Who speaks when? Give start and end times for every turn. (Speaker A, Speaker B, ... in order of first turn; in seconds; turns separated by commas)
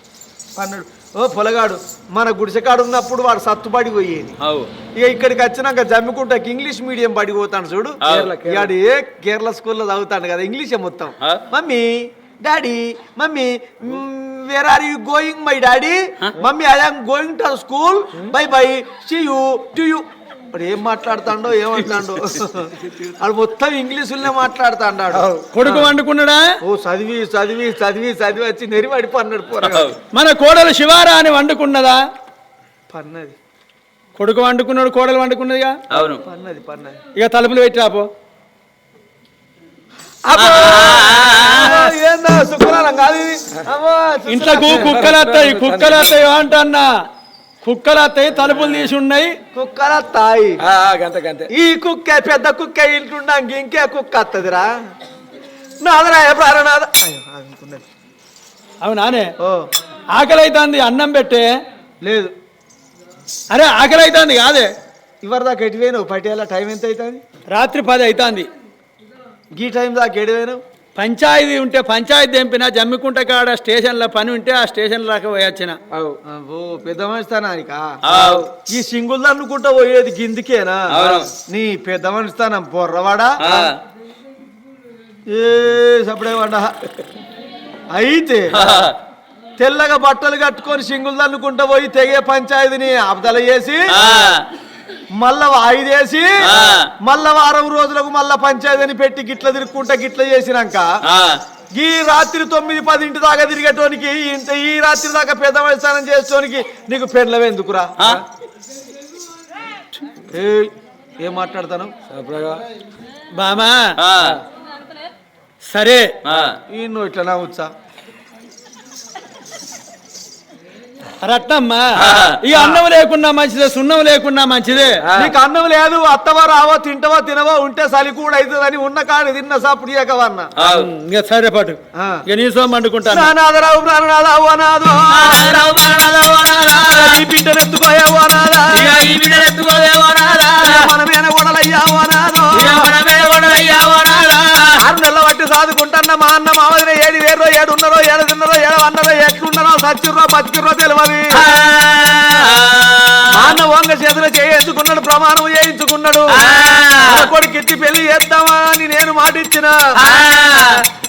Speaker A: 0.6-4.3, Speaker B: 4.4-4.7, Speaker A: 5.0-25.3, Speaker B: 8.0-8.3, Speaker C: 8.0-8.7, Speaker C: 25.1-25.9, Speaker D: 25.5-26.6, Speaker A: 26.6-29.9, Speaker B: 29.6-29.9, Speaker D: 30.1-32.0, Speaker A: 32.9-33.4, Speaker D: 34.2-35.8, Speaker B: 35.9-36.2, Speaker A: 36.2-37.0, Speaker D: 37.1-38.1, Speaker A: 40.2-45.0, Speaker B: 40.4-41.9, Speaker D: 44.3-46.9, Speaker C: 44.6-46.2, Speaker D: 47.6-49.4, Speaker A: 49.5-50.6, Speaker C: 50.6-51.5, Speaker A: 51.5-54.7, Speaker A: 55.8-57.8, Speaker D: 58.8-59.3, Speaker A: 59.4-59.7, Speaker D: 60.1-61.5, Speaker A: 62.0-62.3, Speaker D: 63.5-64.7, Speaker A: 65.2-67.2, Speaker D: 67.5-68.5, Speaker A: 69.5-70.6, Speaker D: 71.0-75.8, Speaker C: 75.9-76.2, Speaker A: 76.2-78.0, Speaker B: 78.0-78.5, Speaker C: 78.1-78.4, Speaker A: 78.7-83.5, Speaker B: 80.9-81.3, Speaker B: 83.4-83.8, Speaker A: 85.3-86.8, Speaker A: 87.9-88.5, Speaker B: 88.5-89.0, Speaker A: 89.6-94.0, Speaker B: 93.9-94.5, Speaker A: 95.2-96.5, Speaker B: 96.4-96.9, Speaker A: 97.0-101.0, Speaker B: 101.0-101.4, Speaker A: 101.7-108.2, Speaker A: 110.3-111.9, Speaker C: 112.1-112.6, Speaker D: 113.3-113.9, Speaker B: 114.0-114.4, Speaker D: 115.7-116.1, Speaker B: 116.2-116.6, Speaker A: 116.7-117.7, Speaker D: 121.2-125.0, Speaker B: 122.0-122.4, Speaker C: 125.0-125.3, Speaker A: 125.2-130.5, Speaker B: 130.6-130.9, Speaker D: 130.6-133.3, Speaker A: 131.9-132.2, Speaker A: 133.1-135.6, Speaker B: 135.1-137.2, Speaker A: 136.9-138.9, Speaker B: 138.7-140.9, Speaker A: 140.6-142.9, Speaker B: 142.5-144.8, Speaker A: 144.8-151.4, Speaker B: 151.3-153.6, Speaker A: 153.3-156.3, Speaker B: 156.3-157.3, Speaker A: 157.0-159.8, Speaker B: 160.0-160.8